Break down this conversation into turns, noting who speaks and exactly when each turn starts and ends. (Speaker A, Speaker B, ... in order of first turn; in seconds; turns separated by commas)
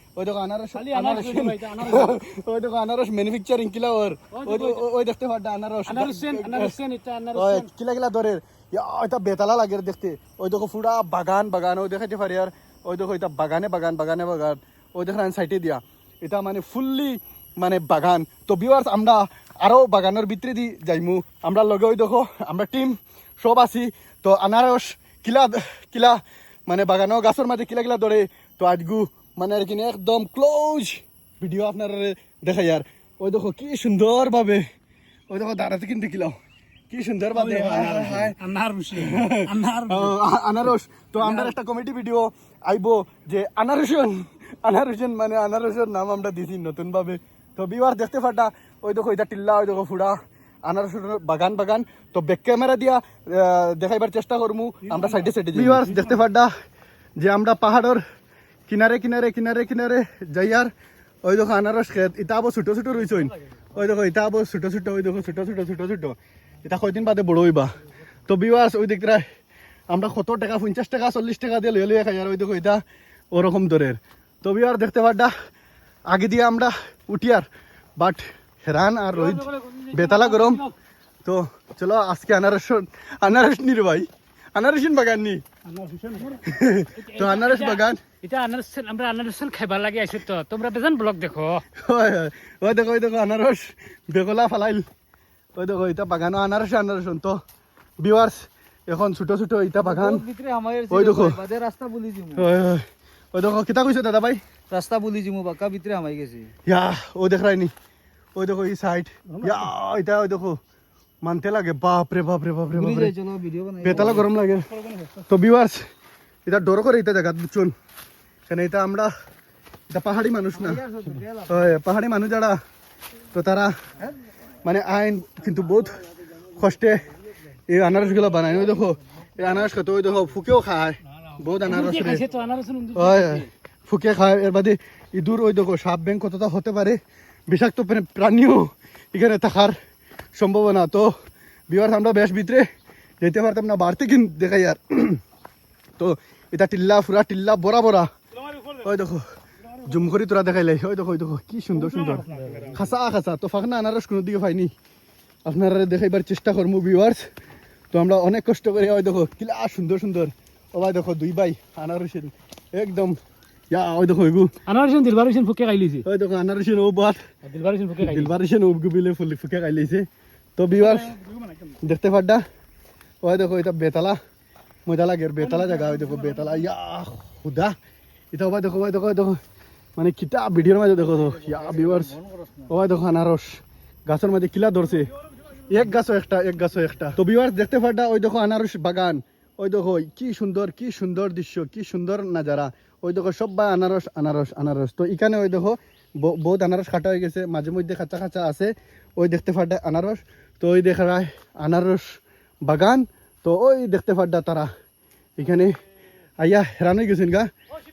Speaker A: 0.2-6.7, Speaker B: 0.8-2.2, Speaker B: 4.3-4.8, Speaker B: 5.9-7.7, Speaker A: 7.3-34.6, Speaker A: 35.3-36.3, Speaker A: 36.9-38.4, Speaker B: 37.3-40.1, Speaker A: 38.9-56.5, Speaker B: 41.2-41.5, Speaker B: 54.8-56.2, Speaker A: 57.2-58.0, Speaker A: 58.7-60.7, Speaker A: 61.2-67.7, Speaker A: 68.3-69.2, Speaker A: 69.9-75.3, Speaker A: 76.1-77.5, Speaker A: 78.0-80.6, Speaker B: 79.1-80.7, Speaker A: 81.2-85.4, Speaker B: 85.7-91.6, Speaker A: 86.4-88.0, Speaker A: 91.8-94.8, Speaker A: 95.5-97.4, Speaker A: 98.0-100.2, Speaker C: 99.7-102.5, Speaker A: 100.9-101.4, Speaker A: 102.4-104.4, Speaker C: 104.7-106.5, Speaker A: 106.7-107.7, Speaker A: 108.4-110.6, Speaker A: 111.2-113.1, Speaker C: 112.7-114.3, Speaker A: 113.8-114.7, Speaker A: 115.2-115.8, Speaker A: 116.5-117.7, Speaker A: 118.5-119.1, Speaker A: 119.9-120.8, Speaker C: 120.5-121.7, Speaker A: 121.5-122.6, Speaker A: 123.3-123.7, Speaker A: 124.6-127.0, Speaker A: 127.7-132.2, Speaker B: 131.6-133.5, Speaker A: 132.9-139.8, Speaker A: 140.4-141.1, Speaker A: 141.7-142.7, Speaker A: 143.2-145.2, Speaker A: 146.0-148.1, Speaker A: 148.8-149.3, Speaker A: 149.8-154.7, Speaker B: 151.8-152.8, Speaker A: 155.5-157.2, Speaker A: 157.9-163.2, Speaker A: 163.7-164.5, Speaker B: 164.7-166.1, Speaker A: 166.0-167.2, Speaker B: 167.4-168.3, Speaker A: 168.0-170.1, Speaker A: 170.6-171.2, Speaker B: 170.8-171.7, Speaker A: 171.8-172.4, Speaker A: 173.2-174.2, Speaker A: 174.9-177.7, Speaker B: 175.4-176.6, Speaker A: 178.3-179.4, Speaker A: 180.0-185.1, Speaker A: 185.7-204.7, Speaker A: 205.4-205.7, Speaker A: 206.4-207.5